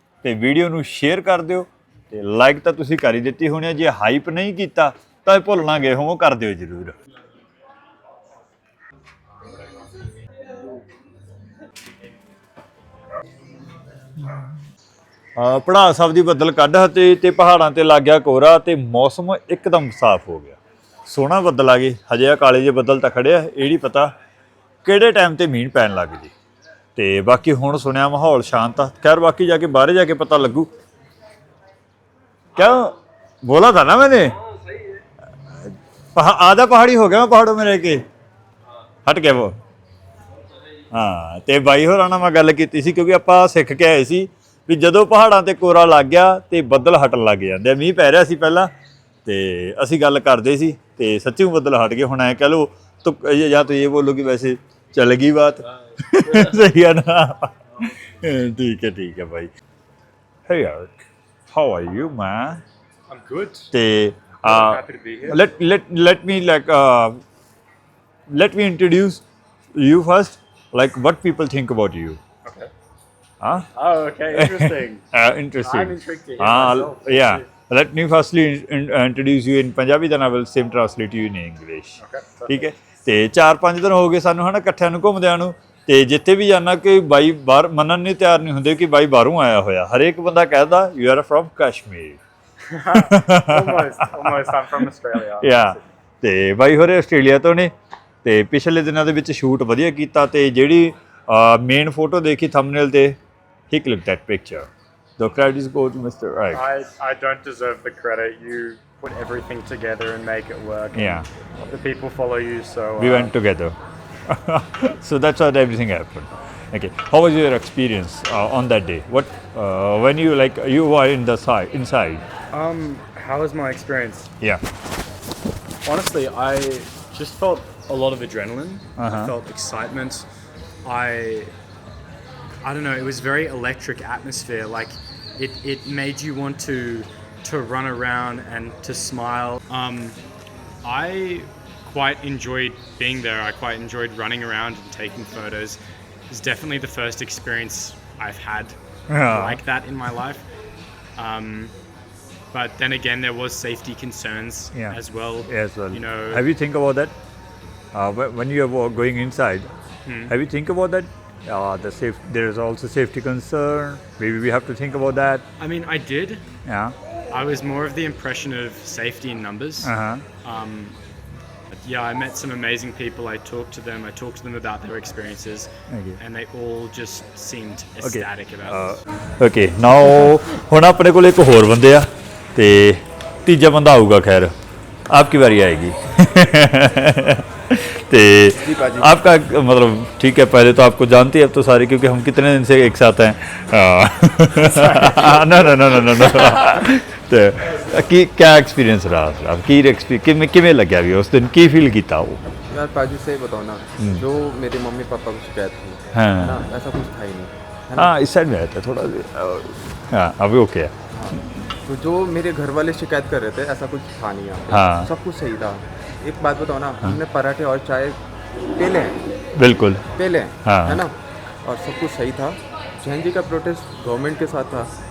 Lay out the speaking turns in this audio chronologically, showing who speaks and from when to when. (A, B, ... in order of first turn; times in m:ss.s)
0:00.2-0:07.0 A
0:14.2-0:14.6 A
0:15.4-0:24.1 A
0:24.8-0:26.3 A
0:27.0-0:30.7 A
0:32.6-0:34.4 A
0:35.6-0:38.1 A
0:39.0-0:39.6 A
0:40.9-0:48.7 A
0:49.2-0:59.5 A
1:00.5-1:02.6 A
1:03.1-1:03.7 B
1:03.7-1:07.2 A
1:04.4-1:05.4 B
1:08.3-1:09.2 A
1:09.8-1:12.2 A
1:12.4-1:12.7 B
1:13.4-1:13.7 A
1:13.8-1:15.0 B
1:14.3-1:32.2 A
1:15.6-1:17.4 B
1:22.0-1:22.6 B
1:32.6-1:35.8 B
1:32.9-1:34.8 A
1:35.4-1:37.7 A
1:38.2-1:43.2 A
1:43.7-1:46.6 A
1:46.5-1:53.3 B
1:50.9-1:51.3 A
1:53.0-2:02.2 A
2:02.5-2:04.3 B
2:05.8-2:10.3 B
2:09.0-2:09.3 A
2:10.8-2:11.5 B
2:12.6-2:20.2 B
2:20.8-2:25.8 B
2:26.3-2:30.5 B
2:29.1-2:29.6 A
2:31.2-2:31.7 B
2:32.5-2:36.4 B
2:34.8-2:37.2 A
2:37.9-2:39.7 A
2:40.1-2:40.3 B
2:40.3-2:45.4 A
2:45.6-2:46.4 B
2:46.7-2:47.0 A
2:47.3-2:49.9 B
2:49.8-2:50.2 A
2:50.4-2:51.0 B
2:51.7-2:58.8 B
2:55.9-2:56.2 A
2:58.0-3:04.5 A
3:05.1-3:22.4 A
3:08.6-3:09.2 C
3:14.9-3:15.3 B
3:22.7-3:28.1 C
3:26.1-3:26.6 A
3:28.0-3:31.7 A
3:31.1-3:38.2 C
3:34.7-3:35.1 A
3:38.7-3:39.2 C
3:39.6-3:40.1 A
3:40.1-3:44.9 C
3:40.6-3:41.0 A